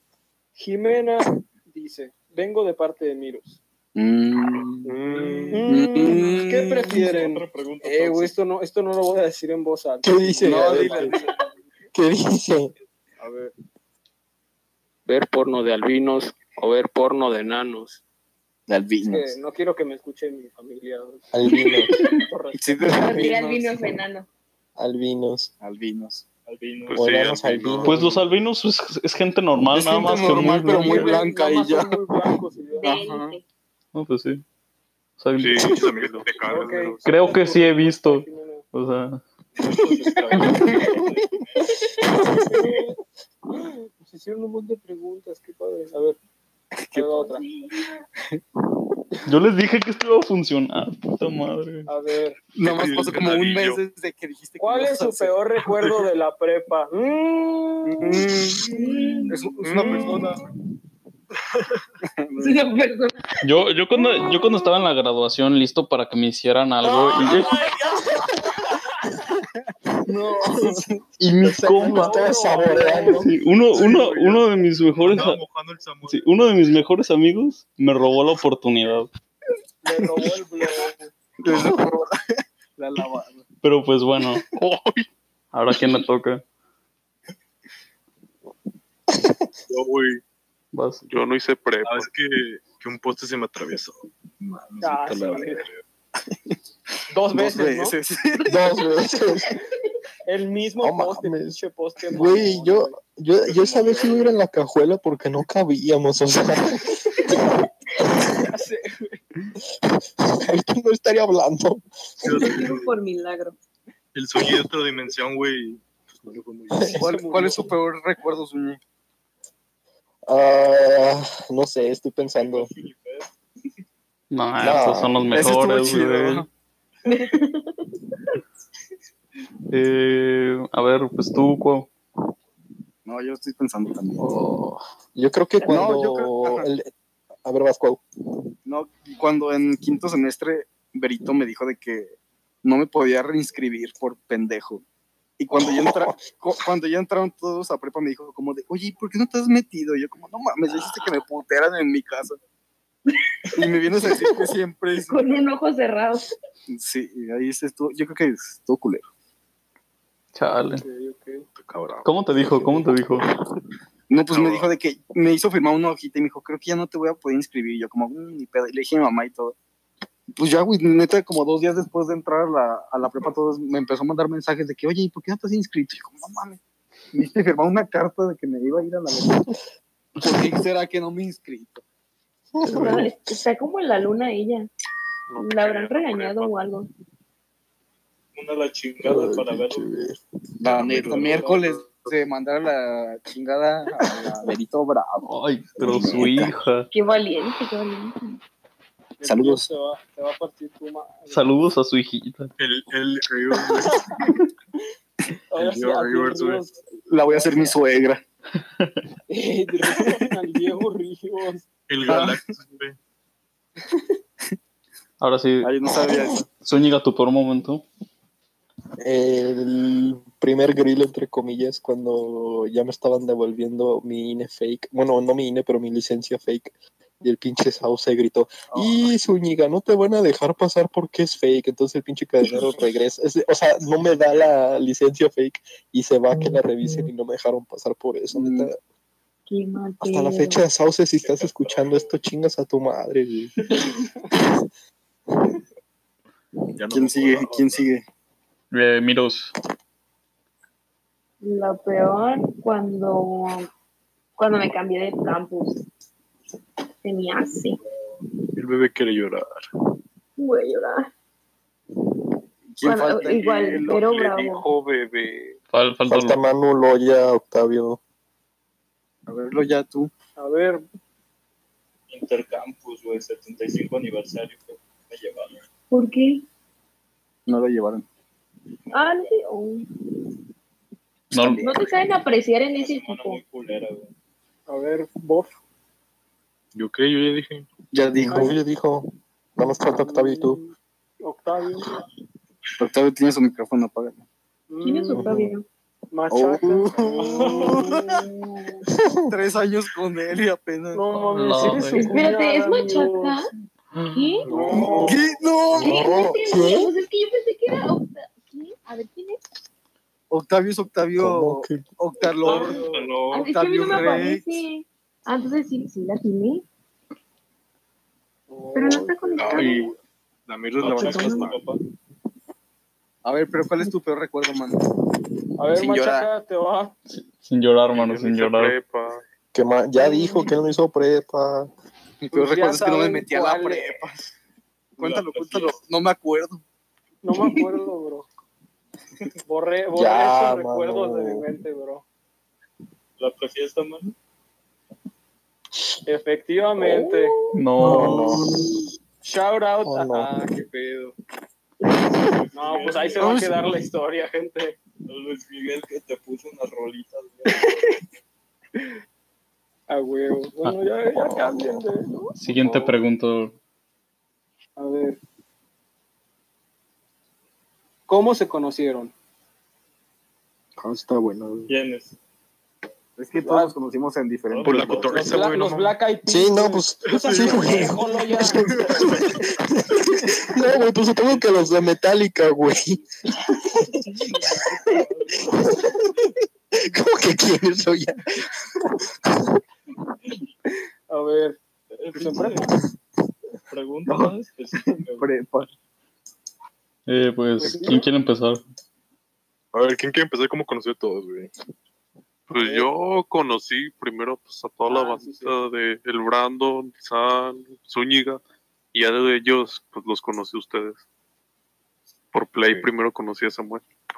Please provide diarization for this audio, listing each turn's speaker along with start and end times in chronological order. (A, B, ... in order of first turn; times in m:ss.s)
0:00.6-0:03.6 A
0:04.0-0:04.9 B
0:04.8-0:05.7 C
0:05.1-0:05.5 D
0:05.5-0:11.2 A
0:05.7-0:07.0 B
0:06.8-0:08.3 D
0:10.0-0:11.1 E
0:10.4-0:11.3 B
0:11.9-0:12.7 E
0:13.2-0:13.5 B
0:15.1-0:18.0 A
0:18.7-0:19.4 B
0:19.0-0:21.2 A
0:21.3-0:21.9 E
0:21.5-0:22.2 F
0:21.9-0:23.5 A
0:22.6-0:23.7 B
0:22.8-0:24.3 F
0:24.8-0:25.5 E
0:25.6-0:26.2 B
0:26.4-0:27.4 D
0:26.9-0:27.9 C
0:26.9-0:28.2 E
0:27.6-0:27.9 G
0:27.8-0:31.2 H
0:29.6-0:32.0 B
0:30.8-0:32.9 A
0:32.7-0:33.4 F
0:32.8-0:33.4 B
0:33.9-0:34.4 H
0:35.2-0:35.8 H
0:35.4-0:37.0 C
0:35.6-0:37.0 G
0:36.4-0:38.6 A
0:37.0-0:39.2 H
0:39.6-0:41.6 D
0:40.6-0:41.0 B
0:42.1-0:43.0 A
0:43.5-0:46.2 A
0:46.8-0:47.3 B
0:46.9-0:47.4 A
0:47.3-0:48.0 F
0:49.2-0:51.9 H
0:51.9-0:52.4 A
0:52.5-0:55.4 B
0:52.6-0:53.8 C
0:52.7-0:53.2 G
0:54.6-0:58.2 A
0:57.8-1:00.4 B
0:58.6-1:00.4 F
1:02.0-1:02.7 B
1:02.4-1:03.2 F
1:03.4-1:07.7 H
1:03.9-1:04.4 F
1:07.1-1:07.9 B
1:09.4-1:11.1 B
1:11.2-1:12.3 H
1:11.4-1:13.3 E
1:11.7-1:13.3 A
1:13.1-1:15.4 H
1:13.7-1:14.4 G
1:15.0-1:16.5 G
1:16.1-1:19.1 H
1:19.8-1:21.1 A
1:21.4-1:23.5 B
1:23.6-1:24.4 H
1:24.6-1:25.0 G
1:25.5-1:26.4 H
1:29.2-1:29.4 E
1:29.7-1:30.2 G
1:30.7-1:31.0 H
1:31.1-1:32.1 C
1:31.8-1:35.8 G
1:34.8-1:35.7 A
1:37.1-1:38.0 A
1:37.3-1:39.3 B
1:38.4-1:39.5 E
1:40.2-1:43.0 A
1:40.8-1:41.6 E
1:42.1-1:47.1 E
1:43.4-1:44.4 D
1:48.3-1:49.2 A
1:50.2-1:52.7 E
1:52.2-1:52.9 G
1:52.3-1:53.6 F
1:54.1-1:57.0 G
1:56.7-1:57.0 E
1:57.0-1:57.7 A
1:57.0-1:58.8 B
2:00.3-2:02.7 E
2:02.3-2:03.4 D
2:04.3-2:06.4 H
2:04.6-2:05.5 E
2:05.3-2:06.5 B
2:07.0-2:07.8 F
2:09.7-2:11.9 H
2:13.0-2:14.3 B
2:14.2-2:16.9 E
2:15.6-2:16.6 B
2:17.4-2:18.0 E
2:18.6-2:24.8 B
2:25.4-2:32.4 B
2:25.6-2:26.0 E
2:33.5-2:35.5 B
2:35.1-2:36.3 F
2:36.7-2:39.0 B
2:40.3-2:40.8 H
2:40.8-2:41.4 A
2:41.6-2:42.1 G
2:42.0-2:43.3 H
2:44.1-2:49.6 B
2:44.3-2:44.7 G
2:50.3-2:56.6 B
2:57.1-2:59.5 B
3:00.2-3:01.8 B
3:02.5-3:03.1 E
3:02.6-3:03.1 H
3:02.7-3:04.7 F
3:05.3-3:06.5 C
3:05.4-3:06.9 F
3:08.3-3:09.9 D
3:09.0-3:10.2 E
3:10.6-3:16.5 B
3:10.6-3:11.6 G
3:11.0-3:11.8 D
3:15.2-3:16.9 H
3:16.9-3:18.4 F
3:19.2-3:21.7 A
3:19.2-3:19.6 B
3:21.3-3:22.5 H
3:22.6-3:24.3 G
3:25.5-3:26.7 A
3:25.6-3:26.7 G
3:27.1-3:28.2 B
3:27.2-3:27.8 A
3:28.6-3:29.0 H
3:29.3-3:31.6 A
3:29.9-3:30.1 B
3:31.9-3:33.0 G
3:32.0-3:32.4 B
3:35.2-3:35.7 H
3:35.6-3:36.5 B
3:36.6-3:37.8 H
3:39.0-3:58.8 E
3:48.7-3:49.1 B
3:58.3-3:58.7 B
3:59.5-4:00.7 F
4:00.0-4:03.7 E
4:01.1-4:02.2 D
4:03.6-4:03.9 D
4:06.8-4:07.9 G
4:06.9-4:08.0 B
4:08.7-4:09.5 H
4:11.4-4:13.7 F
4:14.4-4:15.8 F
4:17.0-4:17.8 F
4:18.5-4:19.5 G
4:20.4-4:21.1 F
4:22.7-4:24.0 B
4:22.8-4:24.7 F
4:23.4-4:23.9 G
4:23.9-4:25.6 C
4:25.7-4:26.4 H
4:26.1-4:28.0 E
4:29.3-4:30.1 B
4:30.4-4:30.8 A
4:32.1-4:35.6 D
4:35.9-4:36.4 F
4:37.5-4:38.0 B
4:38.9-4:39.9 F
4:38.9-4:39.3 D
4:41.3-4:41.8 H
4:41.3-4:41.9 B
4:41.5-4:43.4 F
4:42.7-4:44.1 D
4:44.7-4:45.5 A
4:46.7-4:47.7 G
4:47.9-4:48.6 B
4:48.1-4:50.6 E
4:48.3-4:48.6 A
4:50.0-4:51.9 A
4:52.8-4:54.2 B
4:54.7-4:55.3 A
4:54.8-4:55.6 F
4:55.1-4:55.5 E
4:56.1-4:58.3 A
4:56.3-4:58.2 B
4:58.4-4:58.8 F
4:58.8-4:59.3 E
4:59.3-5:01.1 B
5:00.9-5:03.4 A
5:01.1-5:02.2 H
5:01.8-5:03.5 F
5:03.9-5:04.4 H
5:04.1-5:05.1 F
5:04.4-5:04.9 E
5:04.5-5:05.2 A
5:04.7-5:06.0 B
5:05.7-5:06.9 E
5:05.7-5:09.4 F
5:10.3-5:14.4 B
5:11.1-5:11.9 E
5:12.3-5:14.2 D
5:12.5-5:13.0 A
5:13.3-5:16.6 F
5:18.5-5:19.8 A
5:18.7-5:19.9 F
5:19.3-5:19.9 G
5:20.5-5:21.6 G
5:20.8-5:21.8 D
5:20.8-5:21.6 F
5:23.2-5:24.9 B
5:25.6-5:26.9 A
5:25.7-5:26.3 B
5:27.1-5:28.7 H
5:27.9-5:29.2 C
5:29.5-5:31.7 E
5:30.0-5:30.5 A
5:30.1-5:30.5 F
5:32.2-5:34.3 B
5:32.3-5:34.0 A
5:35.0-5:36.6 B
5:35.0-5:35.8 D
5:37.2-5:38.3 A
5:39.4-5:42.0 A
5:39.9-5:41.5 E
5:43.2-5:44.1 D
5:46.0-5:47.3 A
5:47.0-5:47.5 F
5:47.5-5:48.5 H
5:47.8-5:48.7 E
5:49.2-5:51.1 A
5:49.8-5:50.3 E
5:52.0-5:53.5 D
5:52.5-5:54.8 A
5:53.2-5:53.5 E
5:55.0-5:57.7 D
5:59.9-6:02.2 A
6:01.2-6:01.8 E
6:02.4-6:03.5 H
6:04.8-6:05.2 A
6:08.1-6:09.1 A
6:10.9-6:11.6 E
6:11.7-6:12.2 D
6:13.2-6:15.3 B
6:13.4-6:13.7 A
6:14.5-6:15.4 D
6:14.6-6:16.0 G
6:15.2-6:18.7 A
6:16.3-6:23.0 E
6:17.1-6:18.0 G
6:18.8-6:19.4 G
6:24.1-6:26.1 D
6:25.6-6:26.0 E
6:26.7-6:28.4 E
6:29.2-6:29.5 E
6:31.1-6:31.6 A
6:31.9-6:32.7 D
6:32.1-6:32.8 A
6:33.7-6:35.3 D
6:34.1-6:35.7 B
6:37.1-6:38.6 H
6:37.6-6:38.0 A
6:39.7-6:41.5 G
6:42.5-6:48.4 C
6:44.8-6:45.6 A
6:48.9-6:51.0 C
6:52.3-6:53.8 C